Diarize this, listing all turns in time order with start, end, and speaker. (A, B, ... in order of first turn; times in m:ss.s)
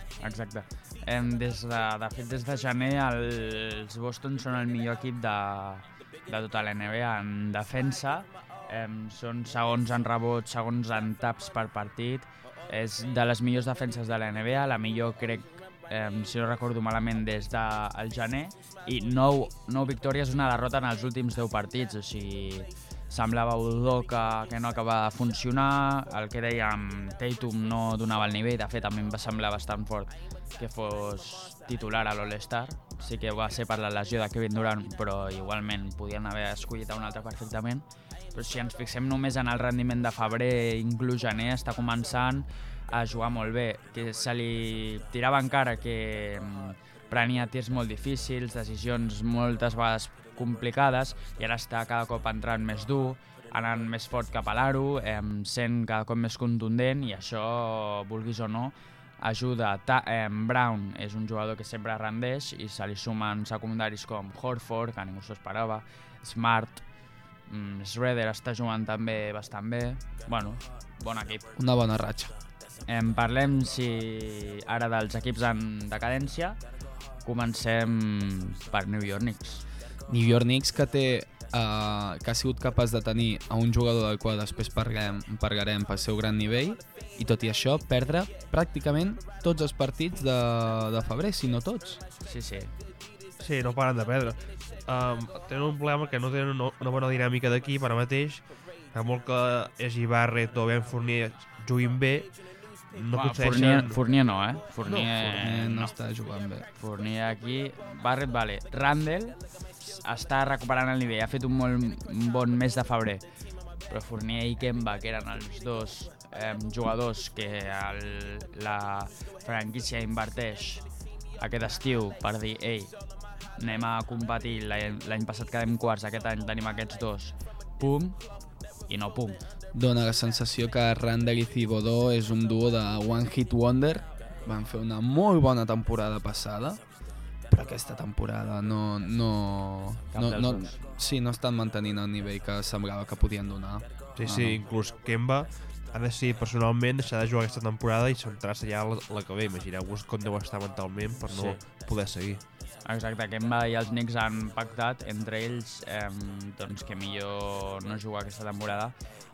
0:00.2-1:06.8 A
1:07.4-1:11.5 A
1:11.6-1:12.3 B
1:12.9-1:16.6 A
1:17.2-1:19.6 A
1:20.1-1:32.0 B
1:32.2-1:32.7 A
1:33.4-1:44.0 C
1:43.1-1:45.9 A
1:44.8-1:45.4 C
1:45.2-1:46.7 B
1:46.8-1:53.2 A
1:53.9-2:00.8 A
2:01.4-2:02.9 A
2:03.6-2:08.2 A
2:08.8-2:09.4 A
2:09.7-2:16.8 B
2:17.5-2:24.5 B
2:20.1-2:20.8 A
2:24.2-2:32.4 C
2:24.2-2:24.6 A
2:31.3-2:31.6 A
2:32.8-2:38.9 A